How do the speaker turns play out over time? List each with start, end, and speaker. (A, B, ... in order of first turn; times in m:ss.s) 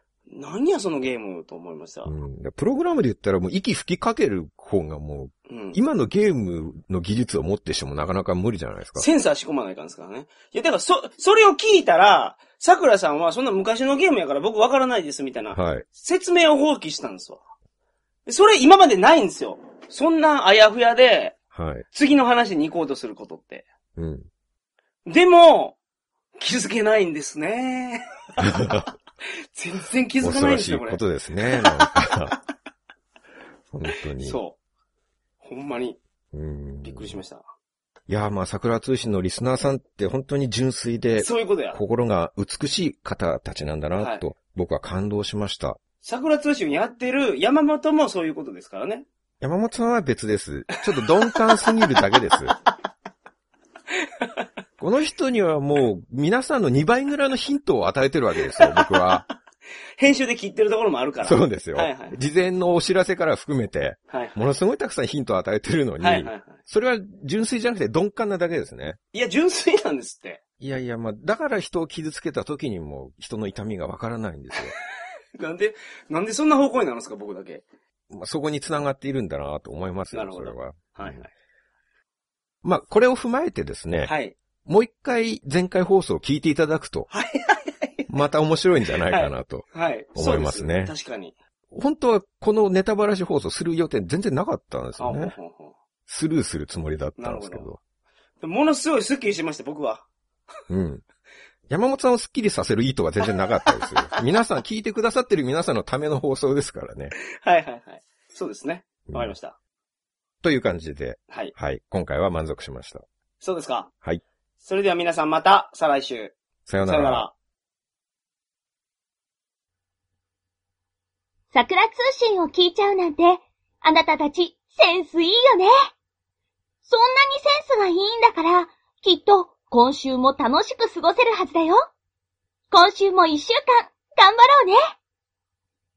0:00.3-0:02.1 A
0:02.0-0:09.1 B
0:05.5-0:05.8 A
0:09.0-0:17.4 A
0:15.5-0:15.8 B
0:18.3-0:21.4 A
0:21.5-0:21.9 B
0:21.9-0:23.7 A
0:24.0-0:24.3 B
0:25.1-0:25.8 A
0:26.4-0:28.6 A
0:28.4-0:28.9 B
0:29.5-0:31.0 A
0:30.2-0:32.4 B
0:31.6-0:32.4 A
0:33.7-0:34.4 B
0:34.2-0:34.6 A
0:35.4-0:36.0 A
0:36.3-0:37.2 B
0:36.8-0:37.4 A
0:38.1-0:45.8 B
0:41.2-0:41.8 A
0:44.0-0:44.3 A
0:46.0-0:49.1 A
0:49.4-0:52.6 B
0:51.0-0:52.1 A
0:54.8-0:59.2 B
0:58.6-0:59.0 A
1:00.0-1:02.2 A
1:01.2-1:09.0 B
1:04.1-1:04.5 A
1:06.0-1:06.6 A
1:09.1-1:10.4 A
1:10.6-1:14.7 B
1:15.4-1:17.6 A
1:18.1-1:21.2 B
1:20.1-1:21.3 A
1:22.6-1:24.1 B
1:24.1-1:24.4 A
1:24.6-1:27.1 B
1:27.1-1:28.1 A
1:28.1-1:30.9 B
1:29.1-1:31.4 A
1:31.7-1:35.4 B
1:35.0-1:35.8 A
1:36.1-1:37.8 B
1:37.2-1:37.7 A
1:38.4-1:40.0 A
1:40.7-1:41.0 B
1:41.7-1:47.1 B
1:43.7-1:44.2 A
1:47.2-1:49.6 A
1:49.1-1:49.3 B
1:50.4-1:53.0 B
1:53.4-1:53.9 A
1:54.6-1:57.3 A
1:56.7-1:57.3 B
2:01.5-2:05.7 C
2:06.9-2:11.8 C
2:12.7-2:14.9 C